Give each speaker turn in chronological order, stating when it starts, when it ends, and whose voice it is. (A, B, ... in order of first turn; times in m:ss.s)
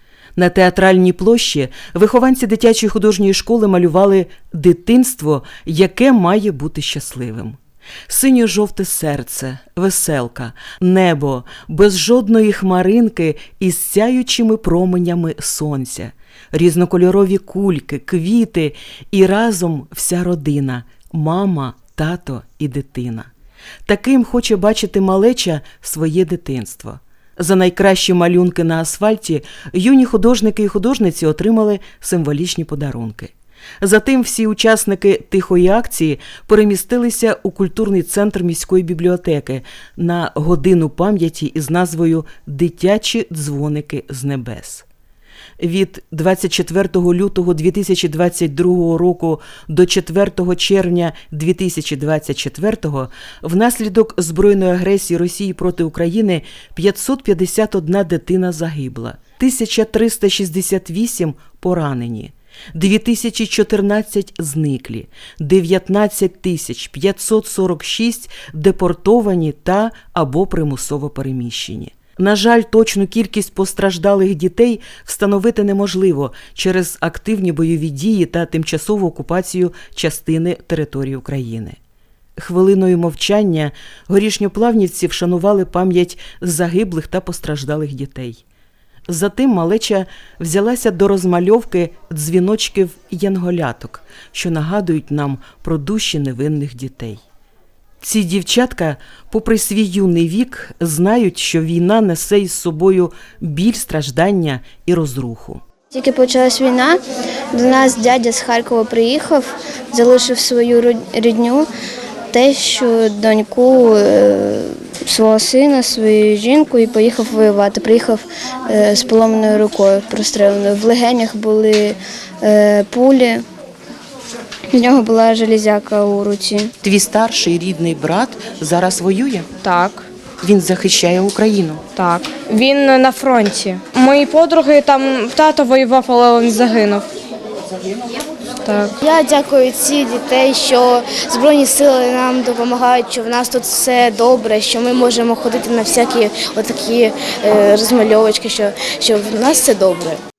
0:00.4-0:23.3 A
0:23.8-0:44.8 A
0:45.6-1:21.8 A
1:22.4-1:28.4 A
1:29.1-1:37.2 A
1:38.0-1:45.6 A
1:45.9-1:47.0 B
1:47.5-1:51.7 B
1:52.3-2:03.4 B
2:04.7-2:06.7 B
2:06.8-2:09.5 A
2:09.6-2:10.0 C
2:10.4-2:11.8 A
2:11.9-2:17.1 C
2:18.6-2:19.0 C
2:19.0-2:30.2 D